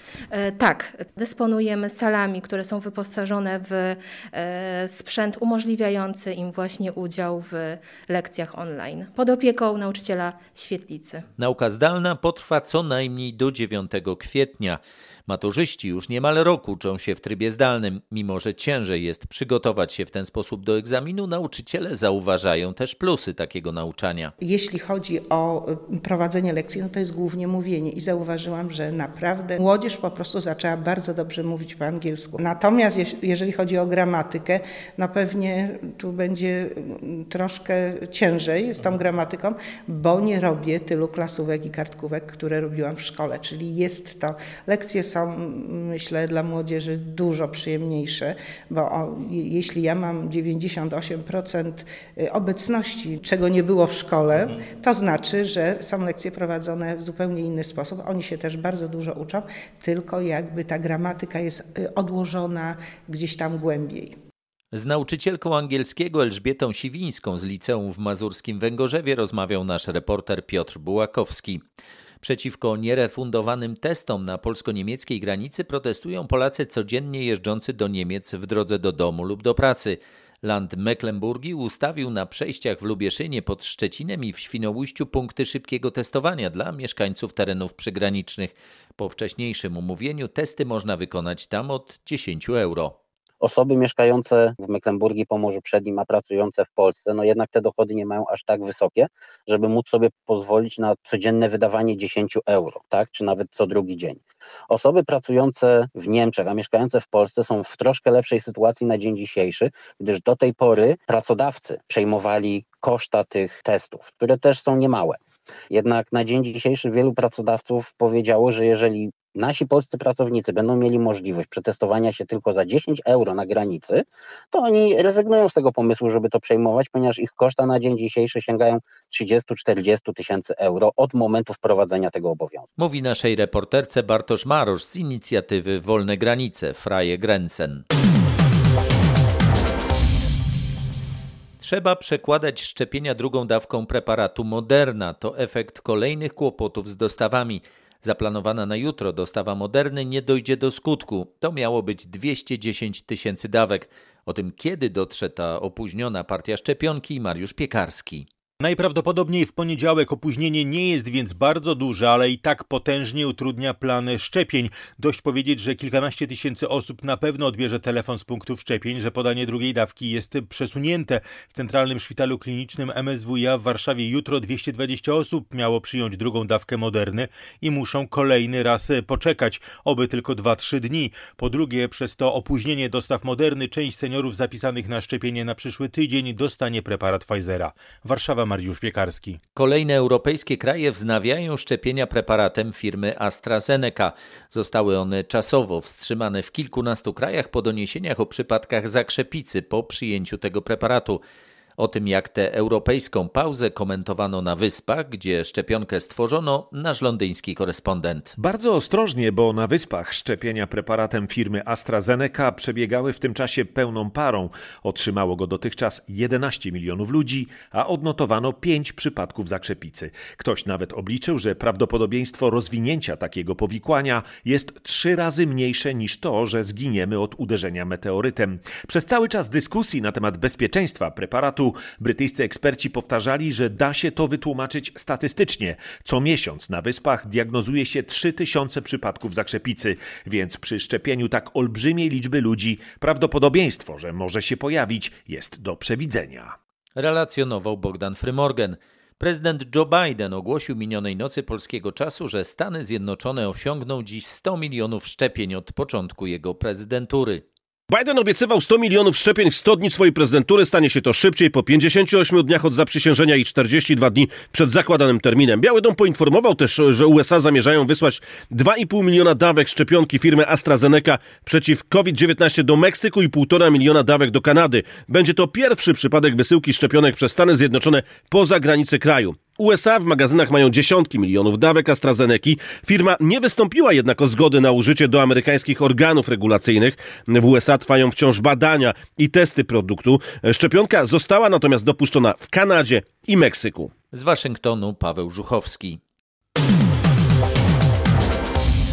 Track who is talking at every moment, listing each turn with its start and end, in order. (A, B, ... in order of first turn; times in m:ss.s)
0:00.3-0:11.2 A
0:11.4-0:24.3 B
0:24.4-1:04.1 C
1:04.7-1:11.6 B
1:12.2-1:33.0 B
1:33.4-1:55.2 D
1:55.7-2:12.7 D
2:12.8-2:17.8 B
2:21.6-2:38.3 B
2:38.6-3:09.4 E
3:09.5-3:21.2 B
3:21.8-3:28.3 B
3:28.4-4:06.5 F
4:07.0-4:17.4 B
4:17.9-4:53.9 G
4:54.1-4:56.0 B